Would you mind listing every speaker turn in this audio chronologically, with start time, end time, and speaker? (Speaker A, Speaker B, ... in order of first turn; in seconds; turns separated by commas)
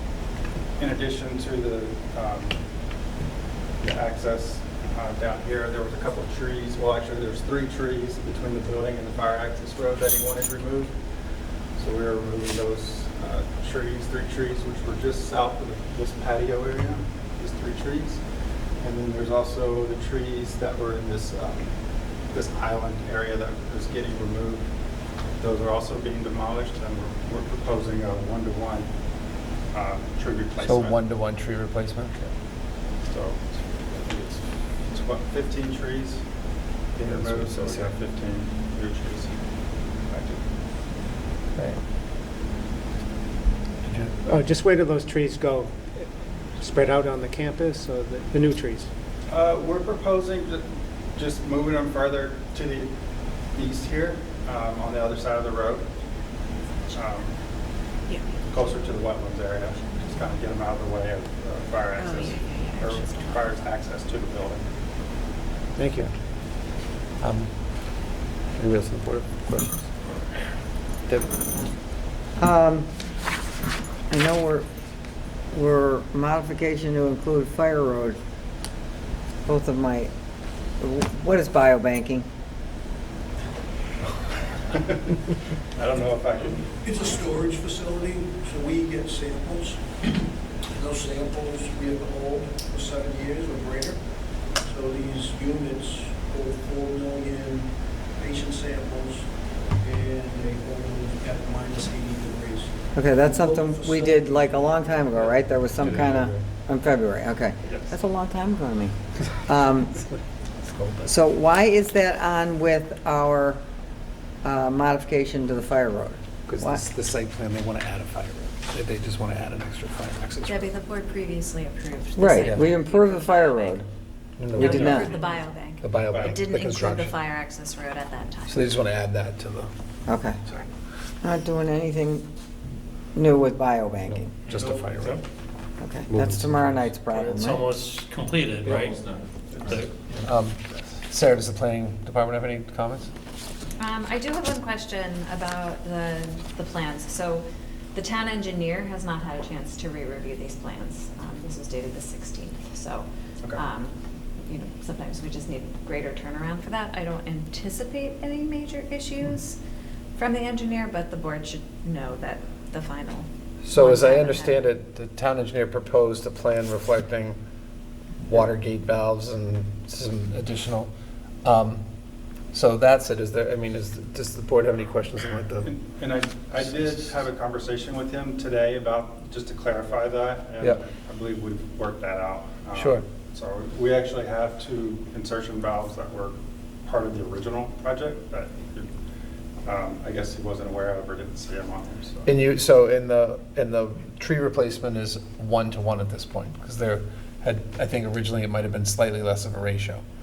Speaker A: 0.8-2.6, Speaker A: 3.8-10.9, Speaker A: 11.8-18.2, Speaker A: 18.8-21.7, Speaker A: 22.3-24.7, Speaker A: 25.4-28.9, Speaker A: 29.7-30.9, Speaker B: 30.6-32.3, Speaker A: 33.0-36.2, Speaker A: 37.0-39.4, Speaker B: 37.0-37.9, Speaker A: 40.1-40.4, Speaker C: 43.9-48.9, Speaker A: 49.3-50.6, Speaker A: 51.2-52.9, Speaker A: 53.5-55.9, Speaker A: 56.9-57.4, Speaker A: 58.5-64.7, Speaker D: 62.0-63.7, Speaker C: 65.8-66.0, Speaker B: 67.2-67.5, Speaker B: 68.5-70.0, Speaker B: 71.1-71.4, Speaker E: 72.4-72.9, Speaker E: 74.1-74.7, Speaker E: 75.5-78.2, Speaker E: 79.5-80.1, Speaker E: 80.8-82.3, Speaker A: 84.6-85.2, Speaker A: 85.7-86.7, Speaker F: 86.8-90.1, Speaker F: 90.7-94.0, Speaker F: 94.6-104.7, Speaker E: 102.9-108.9, Speaker B: 105.8-106.4, Speaker A: 107.6-107.9, Speaker E: 109.5-109.9, Speaker B: 110.6-111.1, Speaker E: 111.0-113.6, Speaker E: 114.4-116.8, Speaker B: 116.5-120.7, Speaker D: 120.5-123.8, Speaker E: 122.2-123.9, Speaker B: 122.4-122.7, Speaker B: 124.4-125.3, Speaker D: 124.5-128.6, Speaker E: 124.6-125.1, Speaker B: 125.8-127.2, Speaker A: 126.1-126.4, Speaker B: 128.5-129.7, Speaker E: 130.1-130.4, Speaker E: 131.2-132.2, Speaker E: 133.2-134.4, Speaker B: 134.1-135.2, Speaker F: 134.6-135.2, Speaker E: 135.8-137.7, Speaker B: 136.1-136.9, Speaker G: 137.1-140.3, Speaker B: 138.6-139.0, Speaker B: 140.2-143.1, Speaker D: 143.8-159.6, Speaker D: 160.2-164.7, Speaker B: 163.6-167.4, Speaker B: 168.2-170.9, Speaker B: 171.4-171.8, Speaker B: 172.5-175.7, Speaker A: 175.6-188.9, Speaker B: 182.8-183.0, Speaker A: 189.7-192.3, Speaker B: 192.3-200.0